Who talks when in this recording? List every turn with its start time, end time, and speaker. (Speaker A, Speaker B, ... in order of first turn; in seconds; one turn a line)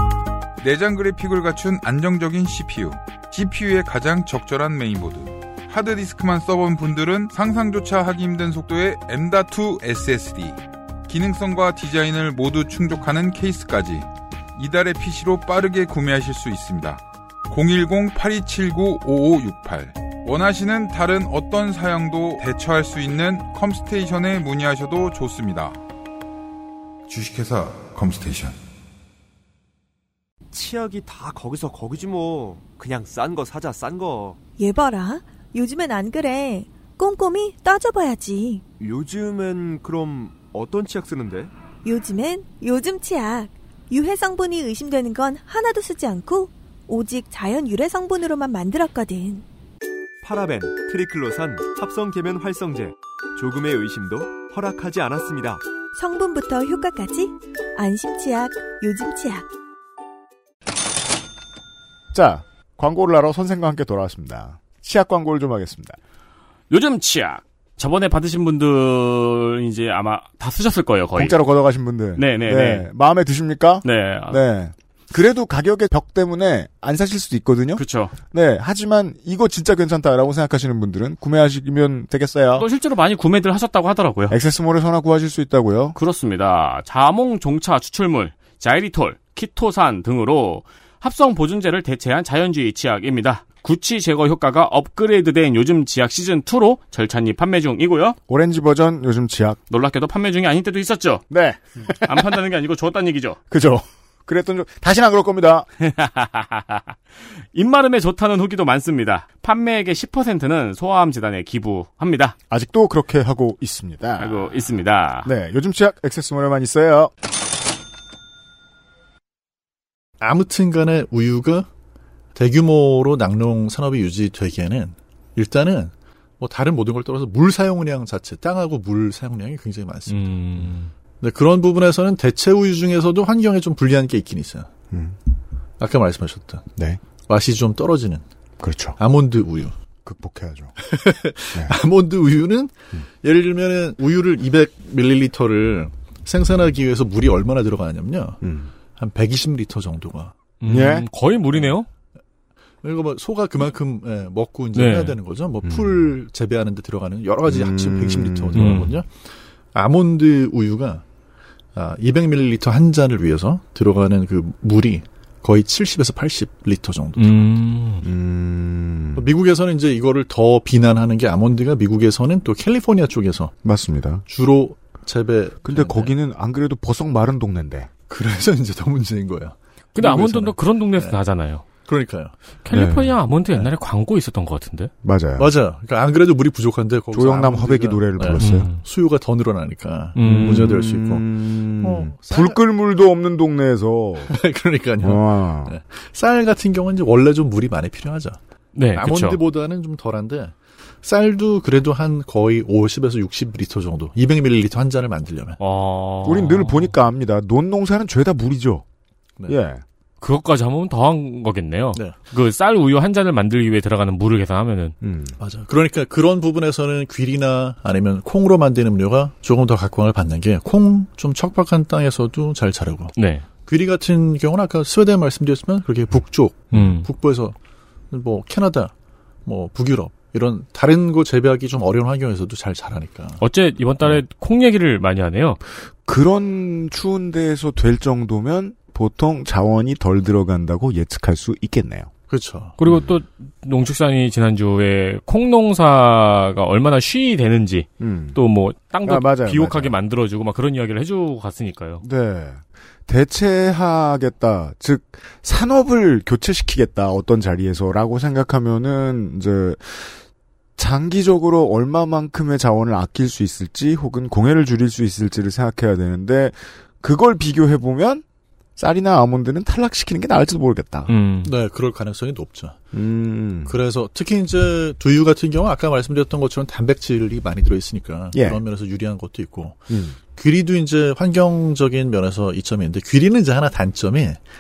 Speaker A: 0.6-25.8
Speaker A: 27.1-28.6
Speaker B: 30.5-34.4
Speaker C: 34.6-38.6
Speaker B: 38.8-41.5
Speaker C: 41.8-49.4
Speaker B: 50.2-55.6
Speaker C: 56.0-59.5
Speaker D: 62.1-66.0
Speaker E: 66.7-71.4
Speaker D: 71.2-82.7
Speaker E: 72.2-72.9
Speaker E: 73.8-74.4
Speaker E: 77.8-78.1
Speaker E: 82.6-84.4
Speaker D: 84.3-86.0
Speaker E: 86.0-98.2
Speaker D: 98.3-99.6
Speaker E: 99.7-101.3
Speaker D: 101.3-102.3
Speaker E: 102.0-103.4
Speaker D: 103.5-105.7
Speaker E: 105.8-106.9
Speaker E: 107.5-112.3
Speaker D: 112.5-114.4
Speaker E: 114.2-115.3
Speaker D: 115.2-117.1
Speaker F: 120.2-121.7
Speaker F: 122.3-130.4
Speaker G: 130.1-130.9
Speaker F: 131.2-134.7
Speaker D: 134.9-135.2
Speaker F: 135.8-136.7
Speaker F: 137.3-138.2
Speaker D: 138.6-139.0
Speaker F: 139.0-139.7
Speaker D: 140.1-140.8
Speaker F: 140.8-148.4
Speaker D: 148.4-148.7
Speaker F: 149.0-150.4
Speaker G: 150.6-151.9
Speaker D: 150.7-151.1
Speaker F: 152.8-159.1
Speaker G: 154.7-155.2
Speaker D: 155.6-156.1
Speaker D: 157.5-158.8
Speaker G: 158.6-158.9
Speaker F: 159.7-161.0
Speaker F: 161.8-167.4
Speaker G: 167.2-168.1
Speaker D: 168.0-169.3
Speaker F: 169.2-173.5
Speaker D: 173.7-174.2
Speaker F: 174.3-176.1
Speaker D: 175.7-177.9
Speaker F: 178.1-181.2
Speaker G: 180.0-181.7
Speaker F: 181.8-182.3
Speaker G: 182.7-184.9
Speaker D: 182.7-183.2
Speaker D: 185.0-185.5
Speaker F: 185.4-192.6
Speaker D: 187.1-188.7
Speaker G: 188.4-188.8
Speaker G: 190.2-190.8
Speaker D: 190.2-194.4
Speaker F: 194.3-198.4
Speaker D: 195.0-195.8
Speaker G: 198.8-199.4
Speaker F: 198.9-205.6
Speaker G: 205.6-206.9
Speaker D: 206.2-208.8
Speaker D: 209.5-209.8
Speaker G: 210.2-215.0
Speaker D: 215.0-215.4
Speaker F: 215.4-227.6
Speaker G: 223.2-223.5
Speaker G: 226.7-227.1
Speaker F: 228.1-228.9
Speaker F: 229.4-233.4
Speaker G: 233.4-235.6
Speaker D: 236.0-242.1
Speaker F: 242.3-242.8
Speaker G: 242.8-252.0
Speaker D: 248.0-248.4
Speaker D: 249.0-250.0
Speaker D: 252.0-260.2
Speaker D: 260.8-268.2
Speaker D: 268.8-271.1
Speaker G: 271.1-271.5
Speaker F: 271.4-272.8
Speaker D: 272.9-273.8
Speaker F: 273.7-284.4
Speaker D: 278.3-278.6
Speaker D: 279.9-280.2